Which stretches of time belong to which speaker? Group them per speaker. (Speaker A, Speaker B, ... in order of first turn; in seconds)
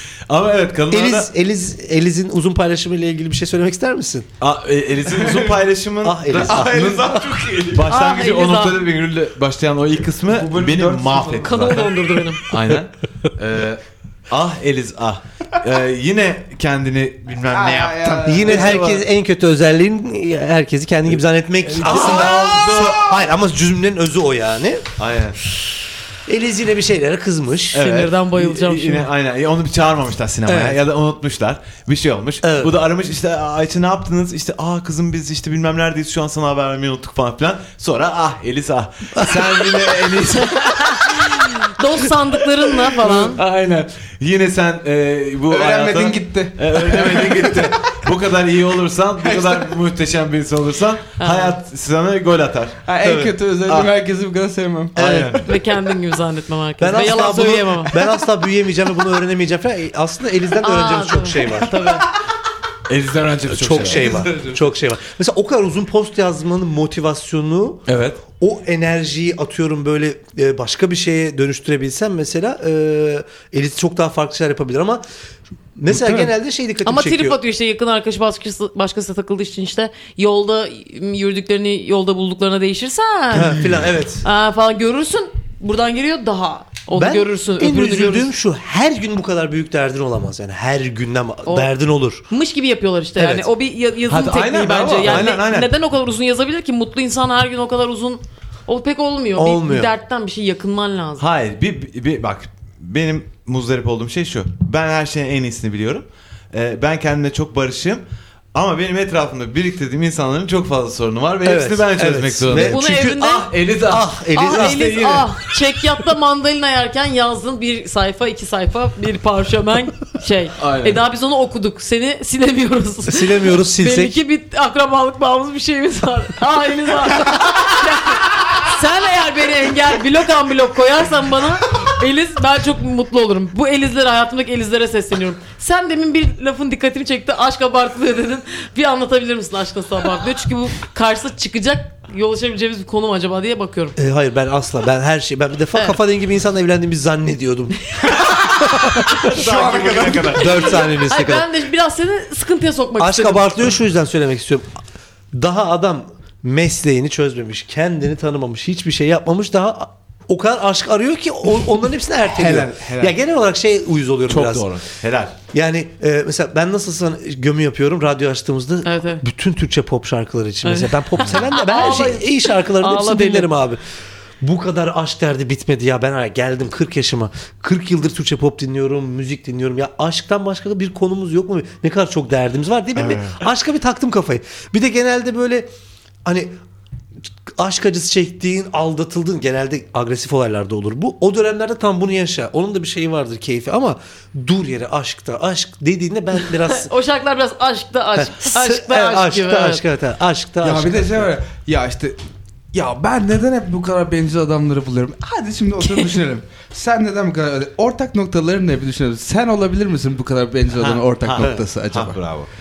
Speaker A: 0.3-1.3, 4.4-11.9, 12.5-19.0, 21.8-23.0, 25.0-25.4, 27.7-41.5, 43.0-53.9, 55.0-55.5, 62.9-64.4, 67.9-68.2, 94.1-95.7, 101.2-108.0, 108.5-115.3, 120.6-121.0, 149.2-150.8, 164.3-165.4, 210.8-212.5
Speaker B: 0.9-4.3, 6.0-7.2, 18.3-24.9, 26.3-27.9, 30.5-30.8, 32.4-32.7, 39.1-39.6, 55.0-55.4, 56.8-61.8, 63.5-75.0, 75.8-77.4, 83.3-84.2, 87.0-92.2, 93.2-93.5, 99.3-99.9, 111.4-115.3, 123.1-124.2, 144.0-149.3, 150.3-151.5, 153.0-154.7, 155.3-164.7, 165.5-173.8, 174.4-185.7, 186.2-186.6, 187.4-196.9, 198.2-201.3
Speaker C: 5.1-5.5, 6.3-7.9, 10.3-12.0, 17.5-18.9, 21.8-23.1, 45.5-47.8, 49.2-49.7, 52.9-55.0, 75.9-76.3, 149.2-150.4, 162.3-163.1, 200.6-202.2, 202.7-212.2
Speaker D: 7.9-8.8, 11.4-12.4, 27.8-29.1, 40.6-43.4, 51.2-51.5, 55.3-58.0, 60.6-62.1, 76.8-83.7, 84.2-88.3, 92.3-101.2, 112.5-113.5, 114.3-144.0, 147.9-148.3, 150.6-153.5, 168.8-169.2, 170.6-173.5, 196.7-199.8